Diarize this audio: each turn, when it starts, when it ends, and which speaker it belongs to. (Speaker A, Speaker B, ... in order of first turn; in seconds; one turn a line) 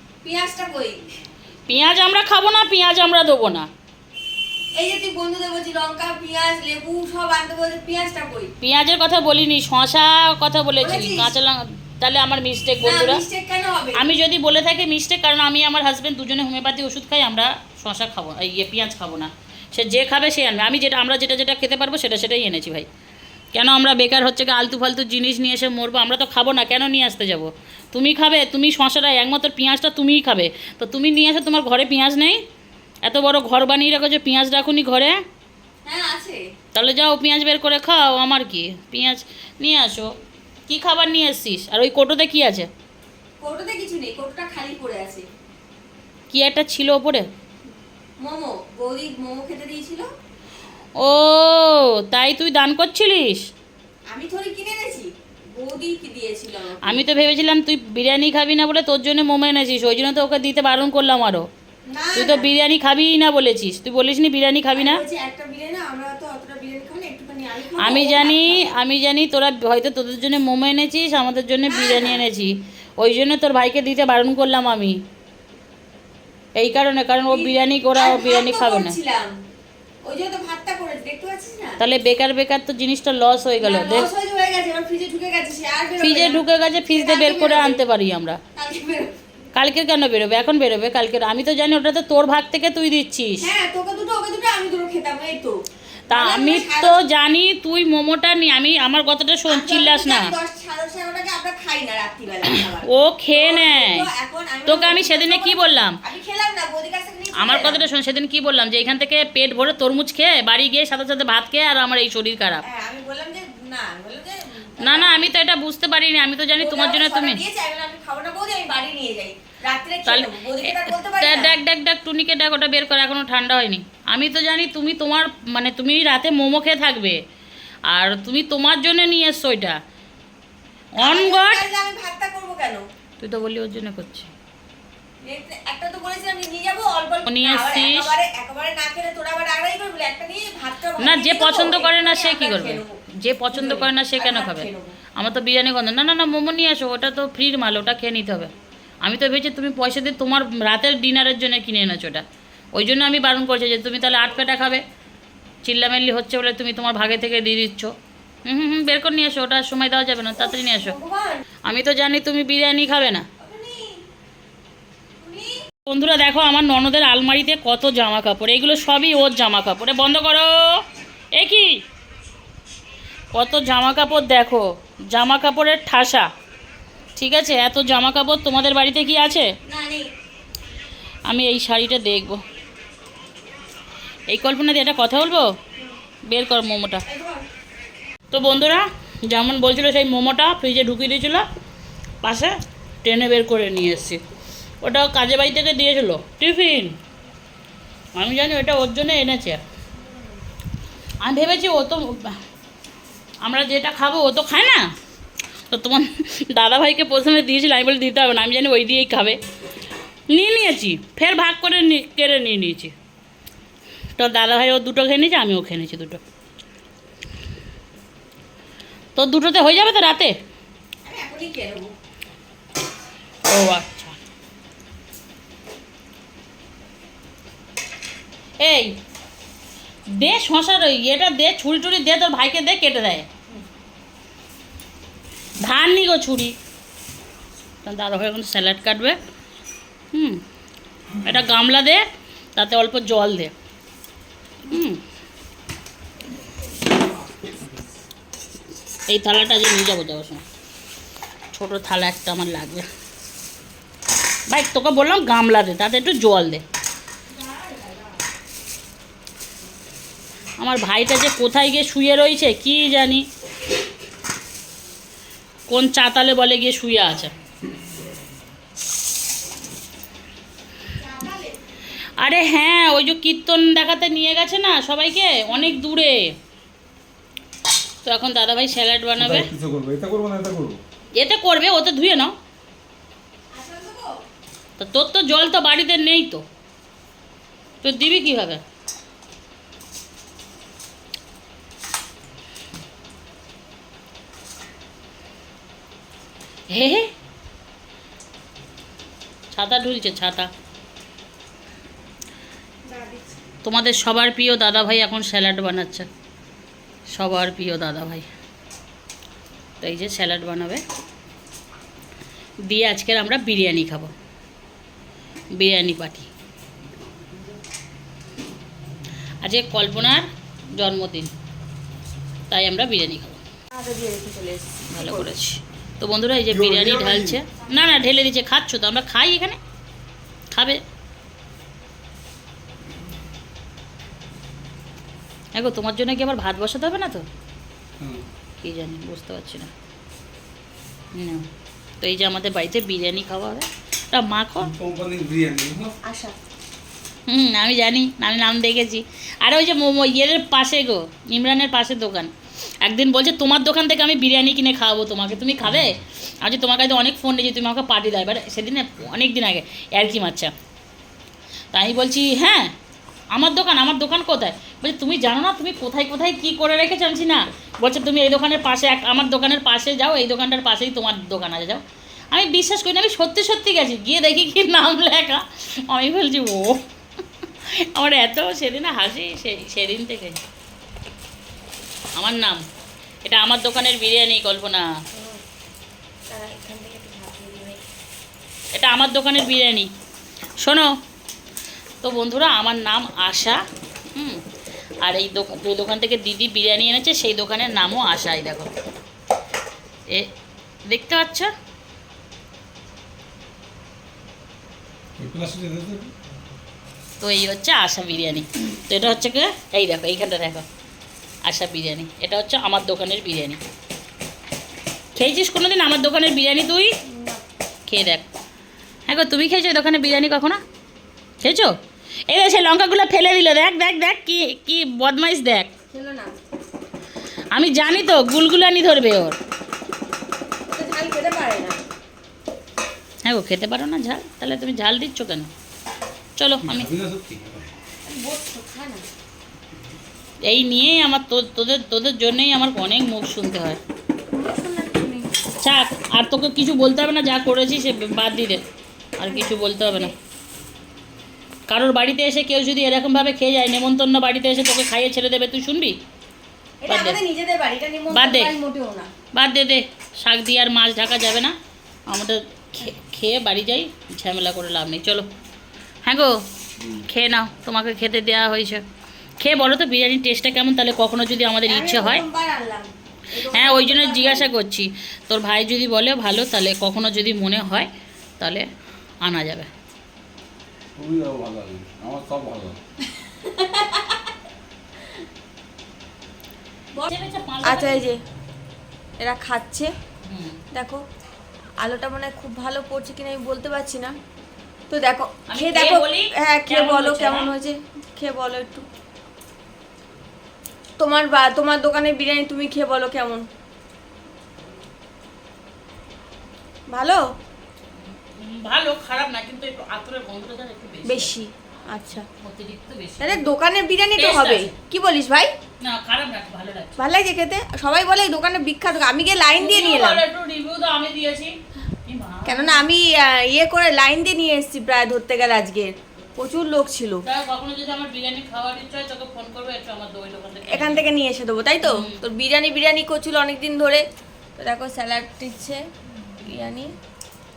Speaker A: 0.2-1.0
Speaker B: 1.7-3.7
Speaker A: 4.7-8.5
Speaker B: 8.6-13.2
Speaker A: 10.8-11.3
Speaker A: 12.8-14.0
Speaker B: 13.9-22.9
Speaker B: 23.5-32.4
Speaker B: 33.0-35.2
Speaker A: 35.9-36.4
Speaker B: 36.7-40.1
Speaker B: 40.7-42.7
Speaker A: 43.4-45.2
Speaker B: 46.3-47.3
Speaker A: 48.2-50.1
Speaker B: 51.0-53.4
Speaker A: 54.1-57.0
Speaker B: 56.8-61.5
Speaker A: 61.9-62.5
Speaker B: 62.1-65.0
Speaker A: 64.7-68.7
Speaker B: 67.8-75.0
Speaker A: 71.7-72.2
Speaker B: 76.5-78.9
Speaker A: 77.2-79.3
Speaker A: 80.0-81.8
Speaker B: 81.8-84.1
Speaker A: 83.6-87.8
Speaker B: 86.0-88.4
Speaker A: 88.5-89.1
Speaker B: 89.5-93.5
Speaker A: 93.4-95.6
Speaker B: 96.1-100.3
Speaker A: 96.1-97.0
Speaker A: 99.5-107.8
Speaker B: 102.5-104.0
Speaker B: 104.7-106.0
Speaker B: 107.3-112.6
Speaker A: 112.7-115.2
Speaker B: 114.8-117.4
Speaker A: 116.6-121.5
Speaker B: 120.0-127.2
Speaker B: 127.9-129.8
Speaker B: 131.0-131.7
Speaker A: 131.0-132.8
Speaker B: 133.2-134.3
Speaker A: 135.2-143.0
Speaker B: 137.3-138.1
Speaker B: 141.0-148.5
Speaker A: 143.5-144.9
Speaker B: 149.0-154.8
Speaker B: 155.6-157.9
Speaker B: 158.4-160.9
Speaker A: 160.4-161.4
Speaker B: 161.7-163.2
Speaker A: 163.4-164.0
Speaker A: 165.2-165.6
Speaker B: 165.9-171.8
Speaker B: 173.3-176.3
Speaker B: 177.2-179.5
Speaker A: 179.7-180.1
Speaker B: 181.3-182.4
Speaker B: 184.3-185.5
Speaker B: 186.2-187.0
Speaker A: 187.1-187.4
Speaker B: 188.3-191.4
Speaker B: 192.2-194.2
Speaker B: 194.8-196.9
Speaker B: 198.1-199.6
Speaker B: 201.2-202.4
Speaker B: 203.4-204.9
Speaker B: 205.7-209.4
Speaker B: 210.3-212.9
Speaker B: 214.2-216.2
Speaker B: 219.2-220.4
Speaker A: 221.0-221.9
Speaker B: 223.5-224.2
Speaker B: 228.6-228.9
Speaker B: 230.1-233.3
Speaker B: 235.6-236.5
Speaker B: 237.8-239.2
Speaker B: 240.1-240.4
Speaker B: 241.2-242.0
Speaker B: 242.6-243.5
Speaker B: 244.7-245.0
Speaker B: 249.1-250.4
Speaker B: 251.5-252.8
Speaker B: 254.5-256.6
Speaker A: 257.4-257.9
Speaker B: 260.6-263.2
Speaker B: 265.7-267.3
Speaker A: 270.9-271.6
Speaker B: 272.2-276.3
Speaker B: 278.0-279.5
Speaker C: 279.2-280.8
Speaker B: 281.1-282.3
Speaker A: 283.5-284.1
Speaker B: 284.8-286.4
Speaker B: 287.8-288.6
Speaker B: 296.7-297.1
Speaker B: 299.5-300.5
Speaker A: 302.9-303.4
Speaker B: 303.6-306.1
Speaker B: 307.1-308.2
Speaker B: 309.8-310.8
Speaker B: 312.7-314.1
Speaker B: 315.6-316.3
Speaker B: 319.4-321.3
Speaker B: 322.5-323.4
Speaker A: 323.7-325.3
Speaker B: 324.9-329.6
Speaker C: 326.5-327.4
Speaker B: 330.5-330.8
Speaker B: 335.5-337.2
Speaker C: 338.0-338.2
Speaker B: 338.6-339.7
Speaker B: 341.1-341.4
Speaker B: 342.0-344.7
Speaker C: 344.6-346.0
Speaker A: 346.0-346.3
Speaker B: 347.3-352.3
Speaker B: 352.8-360.5
Speaker B: 361.7-362.7
Speaker B: 363.3-376.8
Speaker B: 377.6-380.4
Speaker B: 382.1-382.6
Speaker B: 383.2-384.9
Speaker A: 385.1-385.4
Speaker A: 386.3-387.8
Speaker B: 388.7-389.9
Speaker B: 390.6-390.9
Speaker B: 392.0-394.4
Speaker B: 395.0-398.7
Speaker B: 400.9-401.5
Speaker C: 405.2-406.1
Speaker B: 407.2-410.6
Speaker B: 411.4-413.6
Speaker B: 415.1-416.9
Speaker A: 417.1-417.4
Speaker B: 417.9-418.3
Speaker B: 419.1-420.6
Speaker B: 421.4-421.8
Speaker B: 422.3-425.7
Speaker A: 425.9-426.4
Speaker B: 427.5-429.4
Speaker A: 430.7-431.8
Speaker B: 433.2-435.5
Speaker B: 436.4-436.9
Speaker C: 436.6-437.7
Speaker A: 438.1-439.0
Speaker B: 440.4-443.8
Speaker A: 444.3-445.3
Speaker B: 445.6-448.6
Speaker B: 449.2-450.1
Speaker A: 449.3-450.1
Speaker B: 451.7-456.0
Speaker A: 456.8-459.1
Speaker B: 456.9-457.2
Speaker B: 458.1-458.5
Speaker B: 459.3-461.5
Speaker B: 462.1-465.3
Speaker B: 466.0-468.8
Speaker B: 469.4-472.2
Speaker A: 471.6-474.5
Speaker B: 473.5-477.9
Speaker B: 478.4-478.7
Speaker B: 479.2-479.7
Speaker C: 480.9-482.8
Speaker A: 483.4-484.2
Speaker B: 487.0-488.0
Speaker A: 487.6-488.2
Speaker A: 489.2-489.9
Speaker B: 490.2-490.6
Speaker A: 490.7-491.0
Speaker A: 491.8-494.1
Speaker A: 494.9-498.9
Speaker B: 495.5-497.5
Speaker A: 501.0-503.4
Speaker A: 506.9-507.2
Speaker B: 508.4-511.3
Speaker A: 511.0-512.2
Speaker B: 512.3-513.5
Speaker A: 513.2-515.5
Speaker B: 514.1-514.7
Speaker B: 515.8-517.0
Speaker A: 517.0-520.2
Speaker B: 519.5-522.9
Speaker A: 522.5-527.2
Speaker B: 527.2-531.1
Speaker A: 530.7-534.0
Speaker B: 531.8-532.2
Speaker A: 534.6-535.8
Speaker A: 536.4-536.9